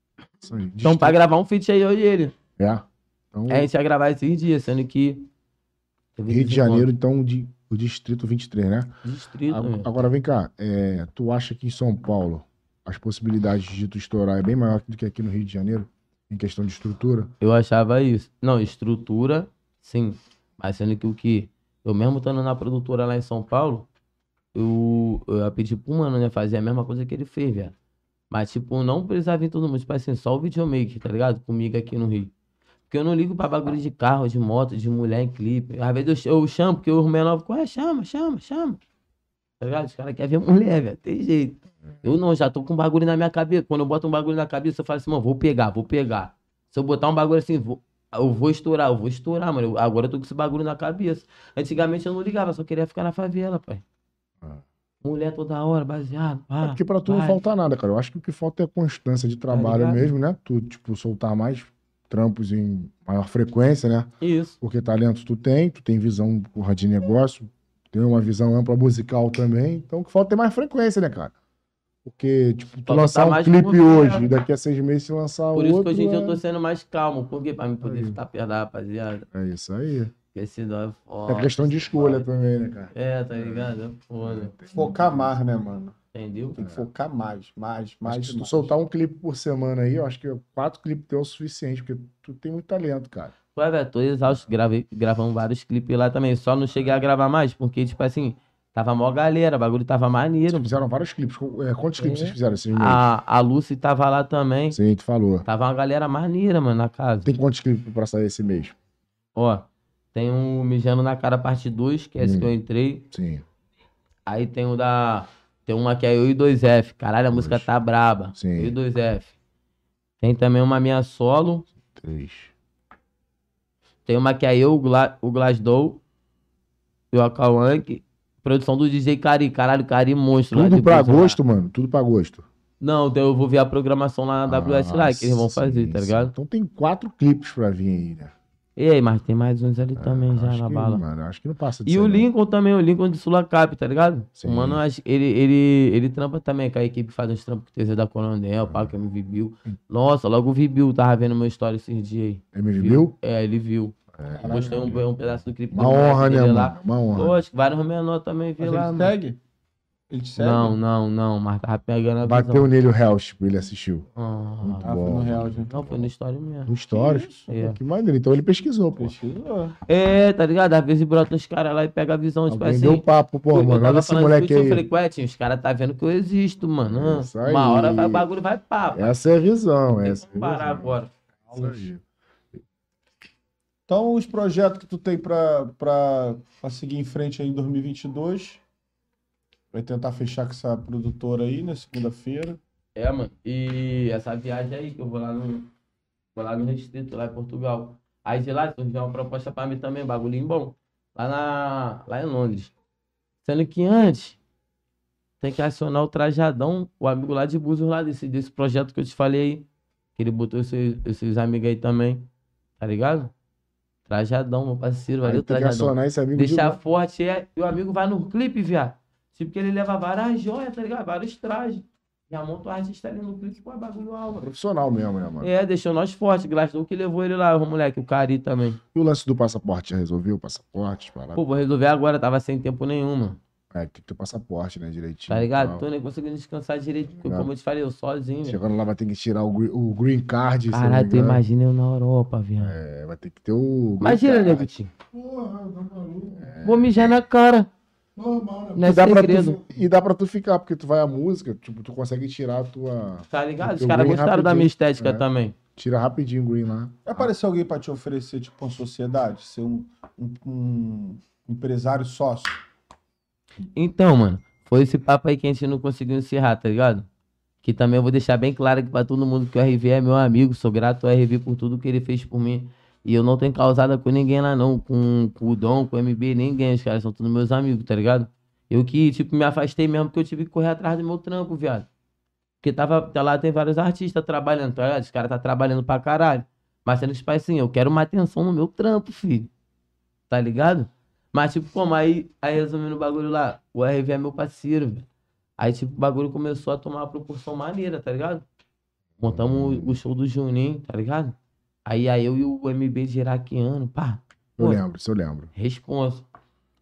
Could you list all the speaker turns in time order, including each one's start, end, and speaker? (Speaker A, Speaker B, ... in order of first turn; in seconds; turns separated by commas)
Speaker A: 0.4-1.2, Speaker B: 0.8-2.3, Speaker A: 2.6-3.7, Speaker B: 3.5-5.3, Speaker B: 6.2-6.9, Speaker A: 6.3-8.9, Speaker B: 9.0-9.9, Speaker A: 9.5-17.3, Speaker B: 17.4-23.9, Speaker B: 24.5-27.7, Speaker B: 28.3-32.3, Speaker B: 32.9-38.8, Speaker B: 39.6-53.8, Speaker B: 55.0-57.4, Speaker A: 56.6-71.3, Speaker B: 59.5-60.0, Speaker B: 64.2-64.6, Speaker A: 72.0-76.4, Speaker B: 72.8-74.3, Speaker B: 75.5-79.2, Speaker A: 77.8-78.2, Speaker A: 79.3-80.1, Speaker B: 80.3-82.2, Speaker A: 81.3-85.3, Speaker B: 82.9-84.5, Speaker C: 84.7-85.9, Speaker B: 86.1-86.5, Speaker C: 86.5-88.7, Speaker A: 86.6-86.9, Speaker A: 88.0-93.3, Speaker B: 93.5-100.7, Speaker A: 100.5-103.0, Speaker B: 102.0-104.8, Speaker A: 104.7-105.4, Speaker B: 105.4-107.3, Speaker A: 107.2-108.8, Speaker B: 109.3-113.0, Speaker A: 112.2-112.5, Speaker A: 113.1-113.4, Speaker B: 114.3-119.3, Speaker A: 117.3-117.7, Speaker A: 118.3-118.8, Speaker B: 120.2-121.7, Speaker A: 121.9-122.5, Speaker B: 124.0-126.0, Speaker B: 127.1-131.4, Speaker A: 130.5-132.4, Speaker B: 132.8-136.3, Speaker A: 134.5-138.3, Speaker B: 138.8-141.0, Speaker A: 140.0-142.3, Speaker B: 141.8-159.1, Speaker A: 144.4-144.8, Speaker A: 148.7-148.9, Speaker A: 152.5-153.1, Speaker A: 154.2-155.1, Speaker C: 154.4-154.9, Speaker A: 155.7-157.4, Speaker C: 158.6-159.4, Speaker C: 160.1-160.8, Speaker B: 160.4-162.7, Speaker A: 162.2-164.1, Speaker B: 164.2-164.8, Speaker A: 164.6-166.1, Speaker C: 164.8-165.7, Speaker B: 165.7-166.7, Speaker A: 166.7-169.1, Speaker C: 166.9-167.5, Speaker B: 167.5-167.8, Speaker C: 169.0-169.8, Speaker B: 169.9-179.1, Speaker A: 172.5-174.8, Speaker A: 176.9-178.3, Speaker A: 178.9-181.0, Speaker B: 180.0-181.1, Speaker C: 181.5-181.9, Speaker A: 181.5-182.0, Speaker C: 183.9-188.6, Speaker C: 189.7-192.6, Speaker B: 192.9-195.7, Speaker B: 196.3-202.7, Speaker B: 203.4-204.4, Speaker B: 205.4-209.7, Speaker B: 210.2-212.3, Speaker B: 212.8-213.3, Speaker B: 214.1-224.5, Speaker A: 215.2-216.8, Speaker A: 224.4-225.5, Speaker B: 225.4-228.8, Speaker A: 228.9-231.4, Speaker B: 231.3-233.4, Speaker A: 233.7-235.8, Speaker B: 235.3-238.6, Speaker A: 237.2-237.5, Speaker A: 238.4-241.4, Speaker B: 240.7-242.7, Speaker A: 242.6-244.7, Speaker B: 244.0-244.9, Speaker D: 245.1-246.5, Speaker A: 246.3-247.2, Speaker B: 246.6-247.7, Speaker D: 248.2-249.8, Speaker B: 248.8-249.6, Speaker A: 248.8-255.2, Speaker B: 253.3-255.5, Speaker A: 255.8-257.3, Speaker C: 257.0-262.6, Speaker B: 263.7-267.1, Speaker B: 267.6-281.9, Speaker B: 282.6-289.5, Speaker B: 290.3-295.1, Speaker B: 295.6-298.4, Speaker B: 299.2-301.3, Speaker A: 299.2-300.0, Speaker B: 301.9-304.8, Speaker A: 304.6-305.5, Speaker B: 305.5-306.2